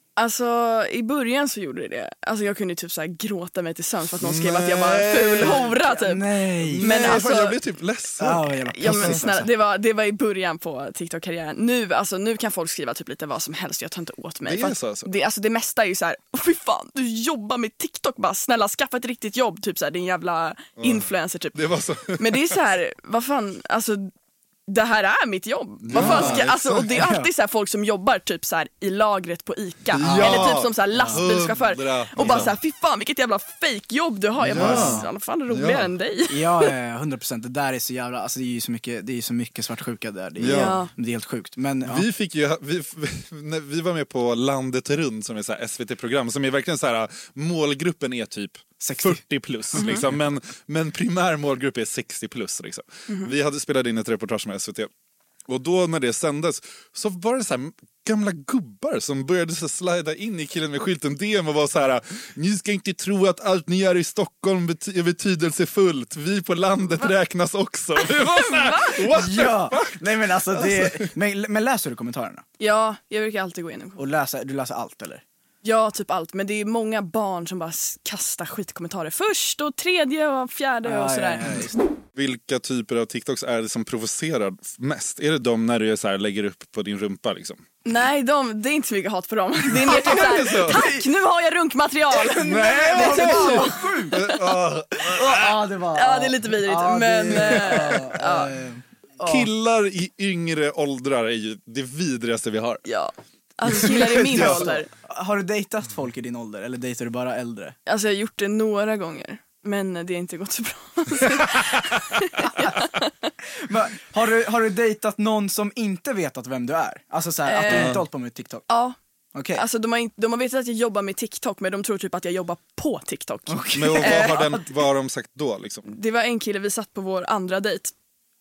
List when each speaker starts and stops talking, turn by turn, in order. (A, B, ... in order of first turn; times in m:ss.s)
0:00.2-0:07.6 A
0:04.2-0:05.8 B
0:05.4-0:07.2 C
0:06.6-0:09.2 B
0:08.2-0:09.5 C
0:08.7-0:21.6 A
0:14.4-0:15.1 B
0:20.8-0:22.6 B
0:22.1-0:24.1 A
0:24.7-0:36.7 A
0:25.8-0:26.9 B
0:25.9-0:27.3 C
0:29.9-0:32.5 B
0:30.0-0:31.2 C
0:32.2-0:32.5 C
0:34.4-0:35.1 C
0:34.5-0:35.9 B
0:36.3-0:42.1 C
0:40.4-0:40.8 B
0:40.4-0:40.9 A
0:41.8-0:54.9 B
0:48.8-0:49.2 C
0:49.8-0:50.0 A
0:55.5-1:11.1 B
1:08.0-1:09.0 A
1:09.1-1:12.4 C
1:12.6-1:14.0 A
1:14.0-1:15.2 C
1:15.6-1:21.6 A
1:20.8-1:21.8 C
1:22.2-1:27.6 B
1:27.8-1:34.4 A
1:29.8-1:31.0 C
1:29.9-1:30.8 B
1:32.2-1:34.2 C
1:32.4-1:35.6 B
1:35.1-1:39.5 C
1:36.0-1:38.5 A
1:37.3-1:38.0 B
1:39.2-1:42.8 B
1:42.8-1:44.9 A
1:43.7-1:47.8 C
1:44.3-1:44.6 B
1:47.9-1:53.3 A
1:53.7-1:58.6 C
1:57.5-1:58.0 A
1:57.7-1:58.0 B
1:58.7-1:59.0 A
1:59.4-1:59.6 C
1:59.6-2:04.5 A
2:03.5-2:04.6 C
2:03.7-2:05.8 B
2:05.9-2:07.9 A